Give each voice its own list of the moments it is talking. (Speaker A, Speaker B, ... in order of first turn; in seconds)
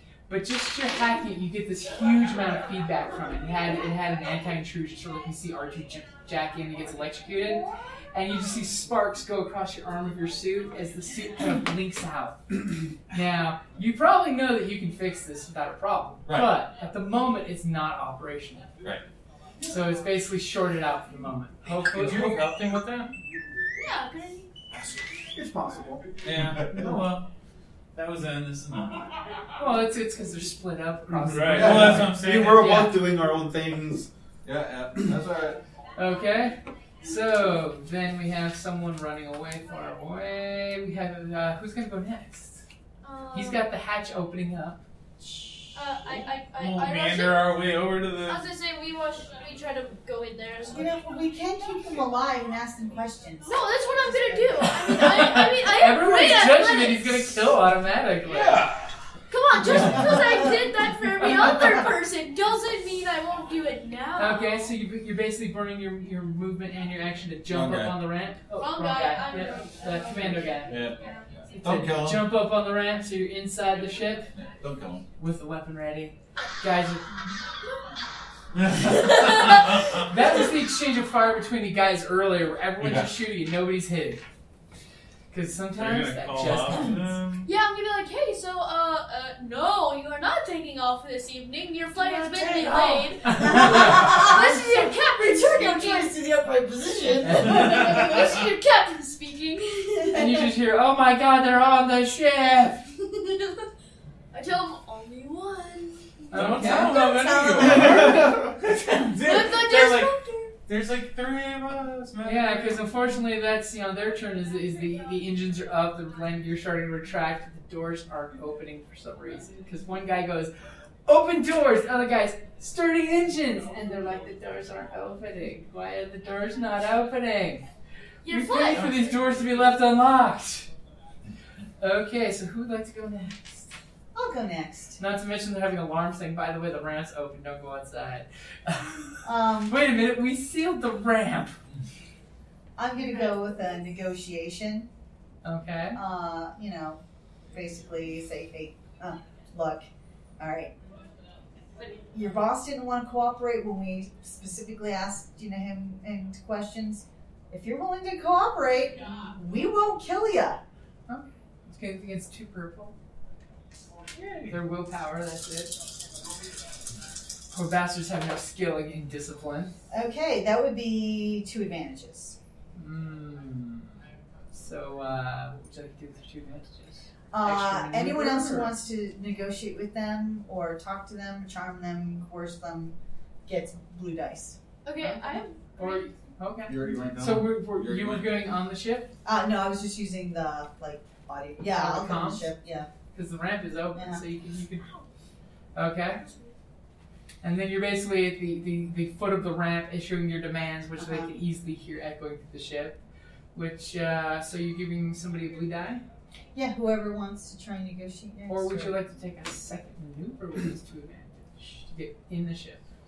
Speaker A: 0.3-18.7, 19.6-22.4, 29.6-33.0, 36.0-42.6, 43.3-44.8, 54.8-58.7, 59.7-60.2, 64.2-70.8, 71.5-74.3, 75.2-77.4, 79.2-84.2, 85.3-87.1, 93.3-94.0, 97.2-97.7, 100.1-102.8, 106.3-107.0, 112.2-120.5, 121.1-127.7, 128.3-130.7, 131.8-133.7, 135.0-141.6, 145.4-146.0, 161.1-162.9, 164.5-165.8, 167.5-169.7, 172.8-173.9, 174.5-178.7, 185.0-189.1, 191.7-192.5, 193.1-195.0, 195.8-196.2, 197.4-203.0, 203.5-206.0, 208.5-212.8
Speaker B: 16.3-16.5, 24.7-25.1, 26.4-26.7, 31.6-32.1, 34.4-35.6, 67.5-68.0, 70.7-71.0, 71.5-72.4, 74.3-75.0, 82.8-83.2, 186.7-188.4
Speaker C: 21.7-23.1, 26.2-27.3, 27.9-29.0, 31.3-32.8, 46.6-48.5, 58.3-58.8, 85.8-87.5, 106.3-110.1, 110.7-112.8, 164.1-164.5
Speaker D: 23.8-24.5, 43.0-43.7, 45.7-47.5, 48.2-51.0, 53.5-57.3, 59.3-64.7, 68.6-71.3, 78.8-80.0, 87.4-96.2, 97.3-100.5, 104.3-107.8, 109.2-110.5, 128.2-129.1, 184.8-186.1, 196.2-196.5
Speaker E: 25.3-26.2, 31.5-34.1, 107.8-108.3
Speaker F: 45.2-45.6, 50.7-55.1, 91.9-98.4, 106.6-108.4, 134.1-135.0, 139.2-139.8, 142.8-144.9, 145.9-147.0, 147.5-149.9, 150.4-150.8, 152.1-160.6, 169.9-172.4, 177.3-182.9, 183.5-184.6, 189.2-192.9, 193.9-194.2, 201.0-201.3, 206.5-209.0